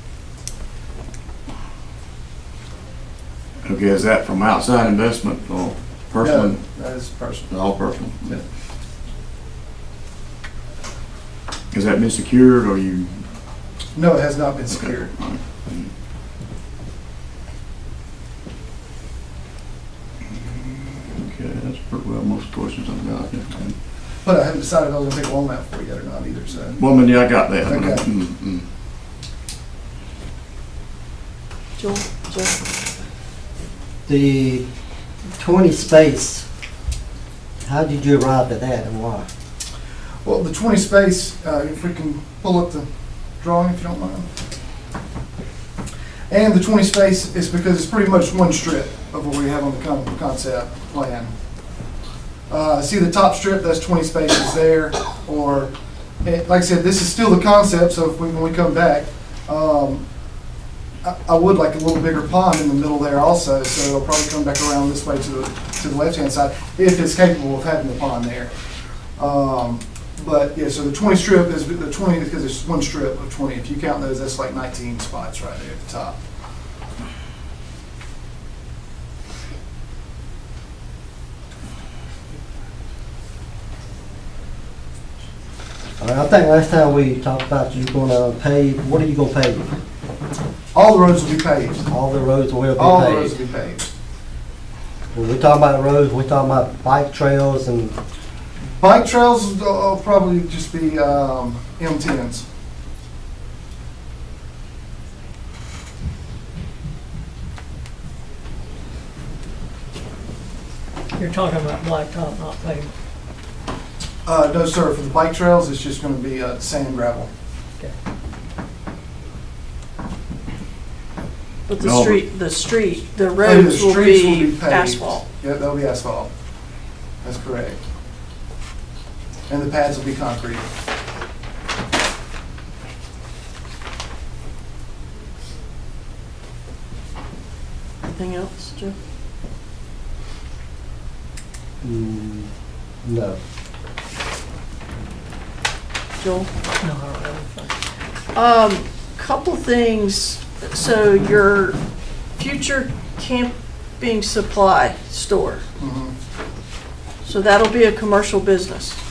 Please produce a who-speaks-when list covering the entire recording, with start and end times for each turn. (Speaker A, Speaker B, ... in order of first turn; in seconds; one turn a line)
Speaker A: 3.6-6.6
Speaker B: 6.2-7.5
Speaker A: 7.5-8.3
Speaker A: 11.7-13.2
Speaker B: 13.9-15.1
Speaker A: 14.7-15.9
Speaker A: 20.4-23.8
Speaker B: 24.2-26.8
Speaker A: 26.8-28.7
Speaker B: 27.6-28.1
Speaker C: 31.8-32.6
Speaker D: 34.1-34.6
Speaker D: 35.4-36.5
Speaker D: 37.6-39.3
Speaker B: 40.2-42.9
Speaker B: 43.4-44.3
Speaker B: 46.3-51.3
Speaker B: 52.5-55.7
Speaker B: 56.2-60.0
Speaker B: 61.0-68.5
Speaker B: 69.2-76.2
Speaker D: 86.0-89.7
Speaker B: 90.7-91.9
Speaker D: 91.9-93.3
Speaker B: 92.8-93.9
Speaker D: 95.1-98.0
Speaker B: 98.8-102.4
Speaker E: 111.2-112.9
Speaker B: 114.2-117.3
Speaker C: 121.7-125.2
Speaker A: 121.8-122.2
Speaker B: 123.4-126.3
Speaker B: 127.2-127.8
Speaker B: 129.5-130.7
Speaker C: 138.0-138.9
Speaker D: 141.8-142.5
Speaker D: 143.1-143.4
Speaker C: 146.2-146.5
Speaker E: 146.8-147.7
Speaker C: 148.3-151.8
Speaker C: 152.4-155.6
Speaker B: 155.8-156.1
Speaker C: 157.2-159.0